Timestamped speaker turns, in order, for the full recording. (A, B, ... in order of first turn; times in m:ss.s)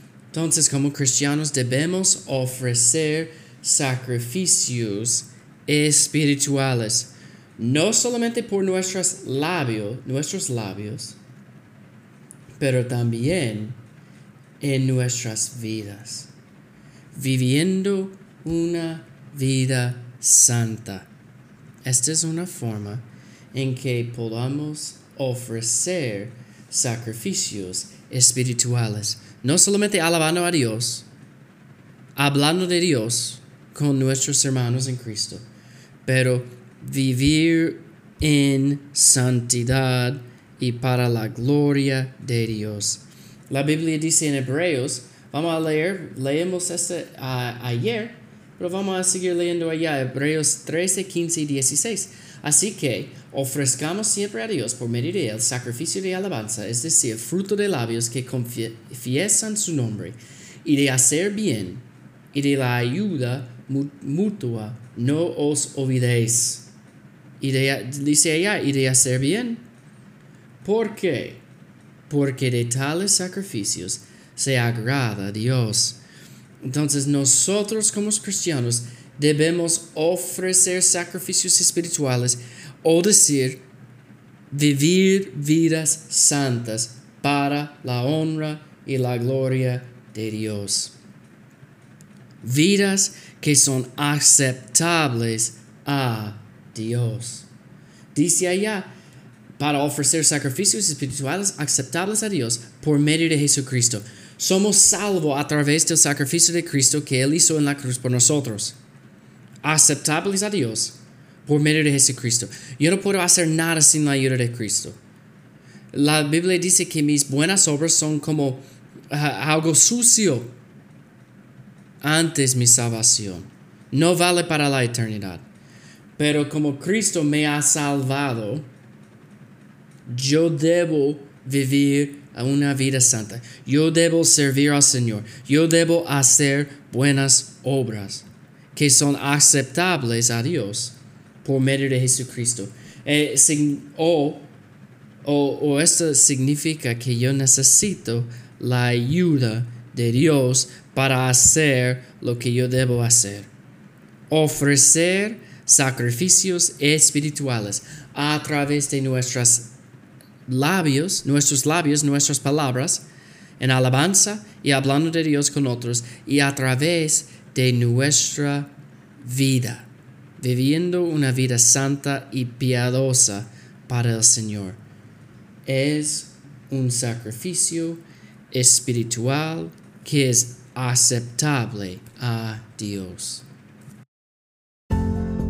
0:00.3-0:11.2 A
0:12.6-0:13.8 A
0:14.6-0:16.3 A
0:17.1-0:21.1 A
0:21.8-0:31.1 A
0:32.2-0:35.4 A
0:36.0-1:06.7 A
1:07.4-1:09.6 A
1:10.6-1:11.4 A
1:12.1-1:16.0 A
1:16.6-1:23.6 A
1:24.5-1:30.9 A
1:32.4-1:37.5 A
1:38.1-1:38.9 A
1:39.6-1:48.8 A
1:49.6-1:55.0 A
1:55.9-2:00.5 A
2:02.0-2:05.4 A
2:06.2-2:08.7 A
2:10.1-2:24.5 A
2:25.2-2:33.5 A
2:34.3-2:39.7 A
2:40.5-2:43.0 A
2:43.6-2:48.7 A
2:49.2-2:49.9 A
2:50.4-2:54.8 A
2:55.7-3:03.4 A